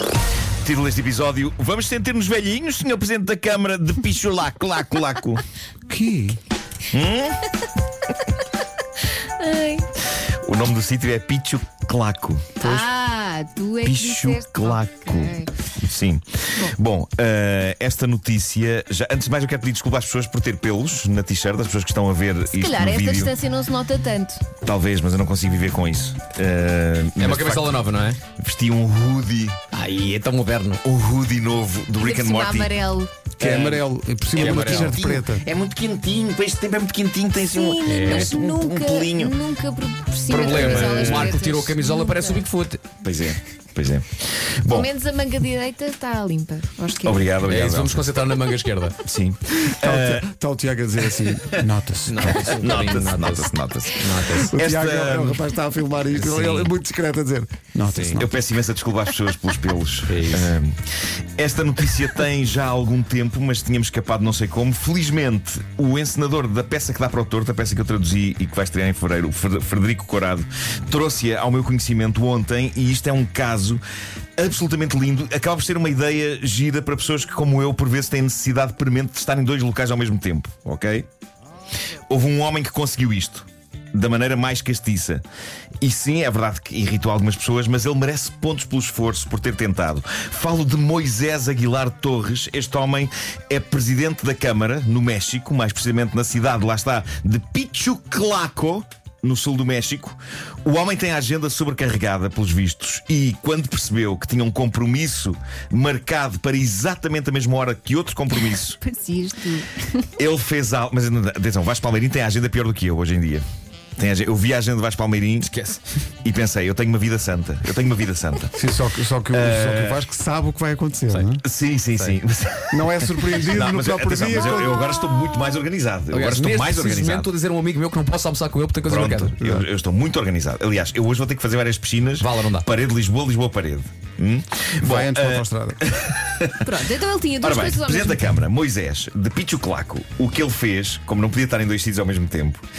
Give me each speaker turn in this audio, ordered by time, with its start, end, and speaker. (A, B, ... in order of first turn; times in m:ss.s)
0:00.6-0:05.4 A
0:05.9-0:06.4 B
0:06.9-0:07.5 A
0:09.2-0:09.9 C
0:10.4-0:12.6 A
0:12.6-0:12.9 B
0:12.6-0:15.5 C
0:13.8-0:23.4 A
0:22.5-0:24.5 C
0:24.6-0:29.6 A
0:27.2-0:28.2 D
0:29.7-0:30.8 D
0:30.8-0:32.8 A
0:32.0-0:33.1 C
0:33.4-0:35.4 B
0:33.4-0:35.0 D
0:34.3-0:39.4 A
0:37.4-0:42.5 C
0:37.8-0:38.4 D
0:40.2-0:42.8 D
0:43.0-0:44.9 A
0:44.7-0:47.3 C
0:47.0-0:48.1 A
0:47.4-0:49.0 D
0:49.0-0:50.3 A
0:49.6-0:52.7 B
0:51.2-0:51.6 A
0:52.1-0:54.5 D
0:52.4-0:55.4 A
0:54.3-0:58.4 B
0:56.1-0:56.7 D
0:57.8-0:58.2 D
0:58.1-1:13.8 A
1:00.1-1:00.6 D
1:14.4-1:21.1 A
1:22.1-1:25.2 A
1:25.8-1:48.8 A
1:48.8-1:50.0 C
1:50.2-1:53.4 A
1:54.0-1:55.5 A
1:55.4-1:55.8 D
1:56.2-1:58.5 A
1:58.5-2:01.4 B
1:59.3-2:00.0 A
2:01.1-2:01.4 D
2:01.4-2:07.3 A
2:02.7-2:04.9 B
2:06.1-2:09.4 D
2:08.8-2:16.8 A
2:12.2-2:12.7 D
2:14.8-2:15.8 B
2:16.6-2:18.2 C
2:17.4-2:22.6 A